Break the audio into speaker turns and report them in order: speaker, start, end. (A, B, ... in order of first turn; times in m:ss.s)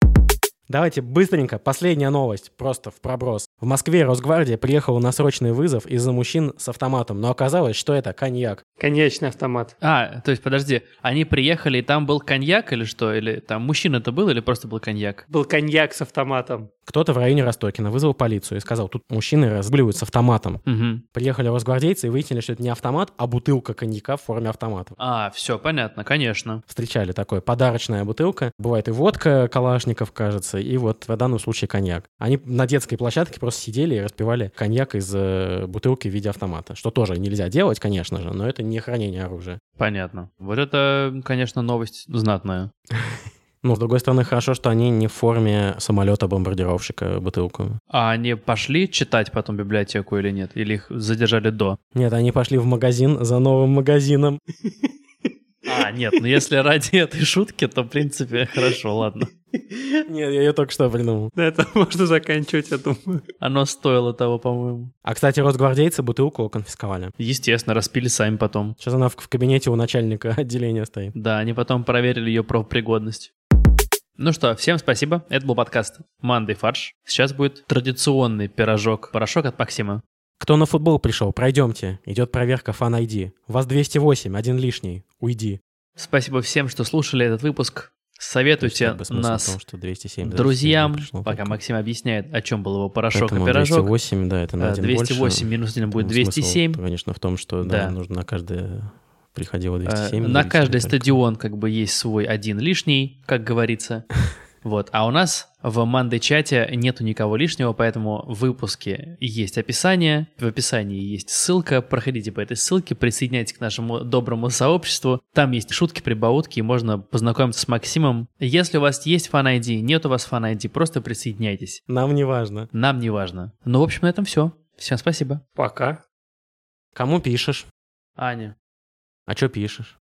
0:00.7-0:08.6 A
0:08.8-0:09.7 B
0:09.8-0:15.2 C
0:15.3-0:16.7 B
0:16.8-0:20.6 A
0:20.6-0:21.0 C
0:21.1-0:25.0 A
0:25.0-0:26.6 C
0:26.7-0:39.6 A
0:39.8-0:42.7 C
0:43.6-0:47.8 A
0:47.9-0:51.8 C
0:51.9-0:54.4 A
0:55.6-0:59.3 C
0:59.7-1:01.3 A
1:01.3-1:03.2 B
1:03.4-1:04.9 C
1:05.0-1:07.1 A
1:07.2-1:08.8 C
1:08.8-1:11.1 A
1:11.1-1:13.3 C
1:14.2-1:20.0 C
1:20.4-1:25.6 A
1:26.0-1:29.6 C
1:28.6-1:31.6 A
1:30.2-1:33.9 C
1:33.1-1:41.2 A
1:34.6-1:36.8 C
1:37.6-1:37.9 C
1:39.8-1:44.1 C
1:44.6-2:01.8 C
2:01.9-2:02.7 A
2:02.7-2:05.4 C
2:05.6-2:06.0 B
2:06.9-2:07.7 A
2:08.2-2:08.5 C
2:09.3-2:09.9 A